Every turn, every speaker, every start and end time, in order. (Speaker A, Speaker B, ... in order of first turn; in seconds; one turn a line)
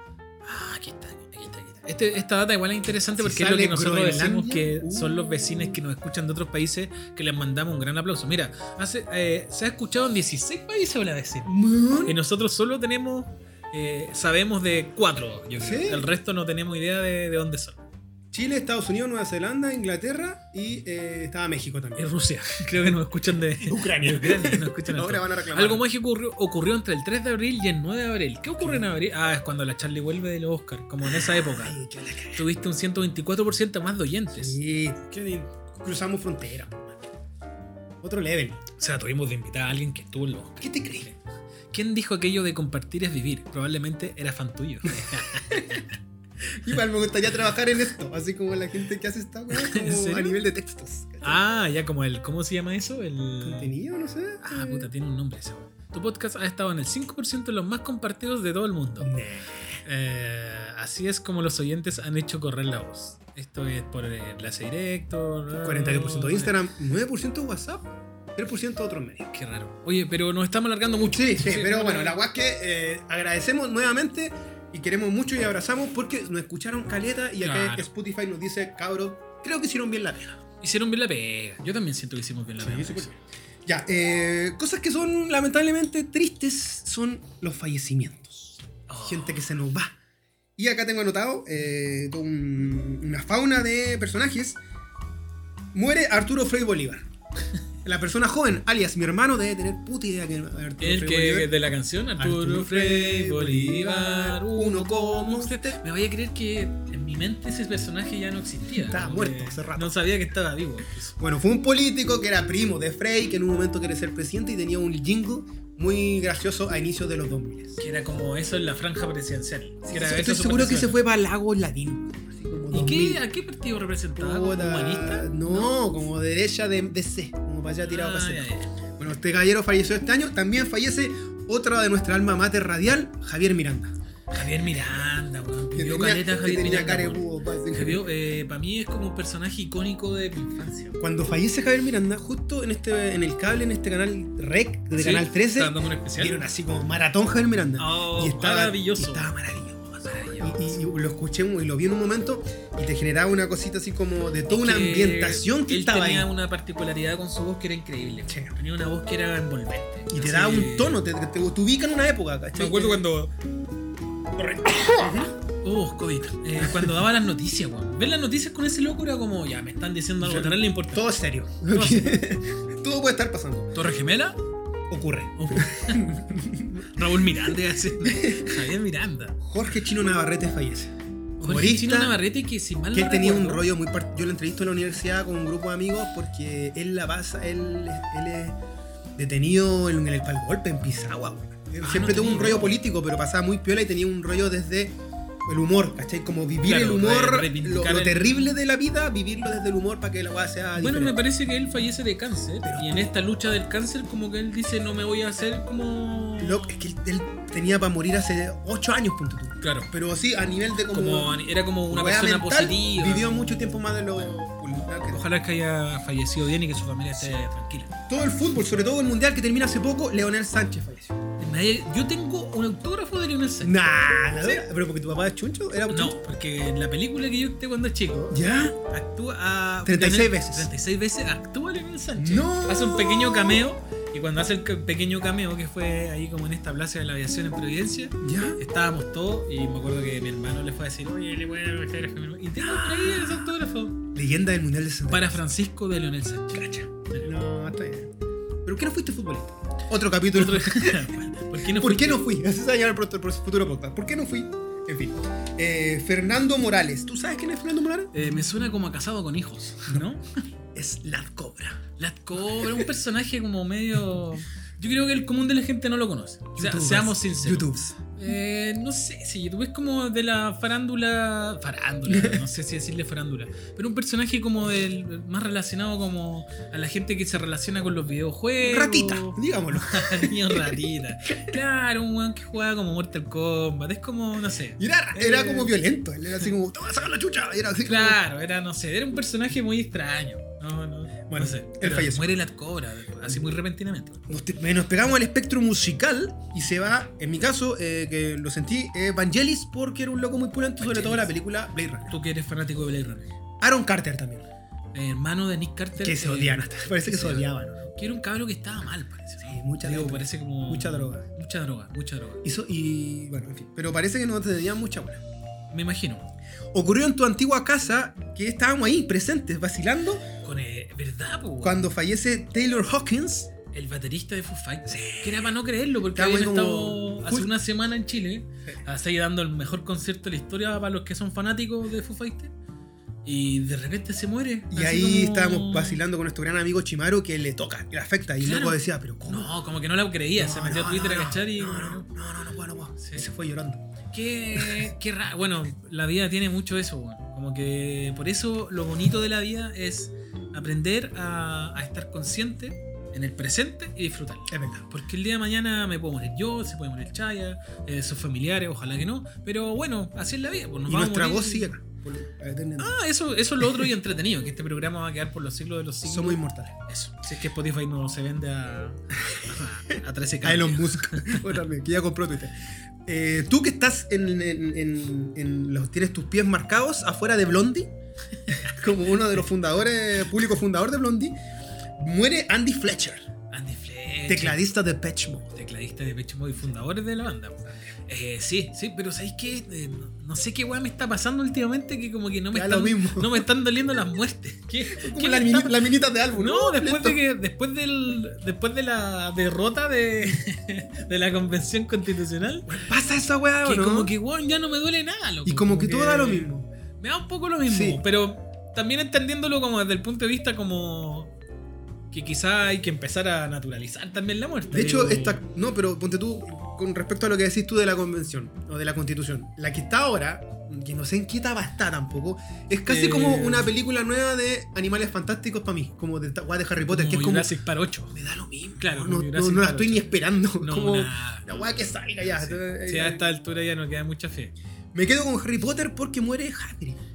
Speaker A: 0.4-11.5
Speaker B: 3.2-5.1
Speaker B: 11.4-12.2
Speaker A: 12.1-17.8
Speaker B: 15.6-16.1
Speaker B: 18.3-22.1
Speaker A: 22.0-31.8
Speaker B: 23.6-25.8
Speaker B: 28.6-28.9
Speaker B: 31.0-32.5
Speaker A: 32.3-34.6
Speaker B: 34.3-37.0
Speaker B: 38.0-38.6
Speaker A: 38.8-41.2
Speaker B: 40.6-41.1
Speaker A: 41.7-45.9
Speaker B: 44.9-45.8
Speaker B: 46.5-51.4
Speaker A: 49.5-50.4
Speaker A: 51.2-53.7
Speaker B: 53.4-54.9
Speaker A: 54.4-59.1
Speaker B: 59.0-59.8
Speaker A: 59.8-66.5
Speaker B: 65.6-69.3
Speaker A: 69.3-72.2
Speaker B: 71.1-80.4
Speaker A: 77.4-77.9
Speaker A: 80.6-83.2
Speaker B: 82.6-83.1
Speaker B: 83.7-90.0
Speaker A: 88.9-89.4
Speaker B: 90.6-94.6
Speaker B: 95.7-97.1
Speaker B: 97.8-101.5
Speaker A: 100.8-111.2
Speaker B: 102.2-105.8
Speaker B: 108.7-110.0
Speaker B: 111.2-117.8
Speaker A: 117.8-121.0
Speaker B: 119.8-123.2
Speaker A: 122.7-125.8
Speaker B: 124.2-128.5
Speaker A: 127.9-128.8
Speaker B: 129.0-133.9
Speaker A: 134.3-141.0
Speaker B: 135.7-138.1
Speaker B: 141.0-156.3
Speaker A: 144.9-146.4
Speaker A: 147.8-149.3
Speaker A: 150.0-150.8
Speaker A: 154.5-161.0
Speaker B: 158.2-158.6
Speaker B: 160.1-163.1
Speaker A: 162.5-163.3
Speaker A: 164.4-171.1
Speaker B: 164.9-165.3
Speaker B: 166.6-166.9
Speaker B: 170.2-173.7
Speaker A: 171.7-172.2
Speaker A: 173.7-174.4
Speaker B: 174.9-178.7
Speaker A: 175.4-176.1
Speaker A: 176.9-179.4
Speaker B: 179.4-182.2
Speaker A: 181.4-183.7
Speaker B: 182.9-188.6
Speaker B: 189.2-201.2
Speaker A: 191.8-192.8
Speaker A: 196.6-198.6
Speaker A: 200.8-206.7
Speaker B: 202.6-203.1
Speaker B: 206.4-215.2
Speaker A: 209.6-209.9
Speaker A: 210.9-214.3
Speaker A: 215.1-218.0
Speaker B: 218.1-221.2
Speaker A: 221.4-223.8
Speaker B: 223.6-226.2
Speaker A: 225.9-244.0
Speaker B: 228.3-228.8
Speaker B: 229.8-230.7
Speaker B: 232.2-233.6
Speaker B: 238.2-238.6
Speaker B: 242.6-243.5
Speaker B: 244.1-245.4
Speaker A: 245.1-247.4
Speaker B: 246.6-248.1
Speaker B: 248.6-251.1
Speaker A: 250.3-252.2
Speaker B: 251.7-258.1
Speaker A: 258.1-260.2
Speaker B: 260.7-261.8
Speaker A: 262.0-285.7
Speaker B: 262.4-262.9
Speaker B: 266.6-267.9
Speaker B: 272.1-272.4
Speaker B: 278.6-281.6
Speaker B: 284.8-288.2
Speaker A: 287.8-294.2
Speaker B: 291.3-292.4
Speaker B: 294.3-302.1
Speaker A: 300.8-301.3
Speaker A: 302.1-303.3
Speaker B: 303.6-304.4
Speaker A: 304.9-312.4
Speaker B: 306.0-307.9
Speaker B: 309.4-311.2
Speaker B: 312.4-315.2
Speaker A: 315.7-316.2
Speaker B: 316.7-320.2
Speaker A: 320.4-321.8
Speaker B: 321.6-323.5
Speaker A: 323.7-332.5
Speaker B: 324.9-325.5
Speaker B: 326.1-327.5
Speaker A: 333.2-336.0
Speaker B: 334.7-339.5
Speaker A: 338.4-342.1
Speaker B: 340.4-343.9
Speaker A: 343.0-343.2
Speaker A: 344.1-361.7
Speaker B: 344.6-344.9
Speaker B: 354.5-354.9
Speaker B: 360.9-362.9
Speaker A: 362.8-371.4
Speaker B: 363.6-363.9
Speaker B: 366.1-366.7
Speaker B: 369.3-372.5
Speaker B: 373.1-377.9
Speaker A: 378.4-378.9
Speaker B: 378.6-381.4
Speaker B: 382.0-383.3
Speaker A: 383.5-384.6
Speaker B: 384.3-385.5
Speaker A: 385.5-395.7
Speaker B: 387.6-387.9
Speaker B: 392.5-393.4
Speaker B: 394.9-397.2
Speaker A: 396.3-402.8
Speaker B: 402.7-404.1
Speaker A: 403.6-411.3
Speaker B: 405.4-406.7
Speaker B: 407.7-408.0
Speaker A: 412.1-415.4
Speaker B: 414.7-427.5
Speaker A: 422.9-423.7
Speaker A: 426.9-428.1
Speaker B: 428.1-433.2
Speaker A: 428.8-430.1
Speaker A: 430.6-431.5
Speaker A: 432.2-434.5
Speaker B: 434.9-437.0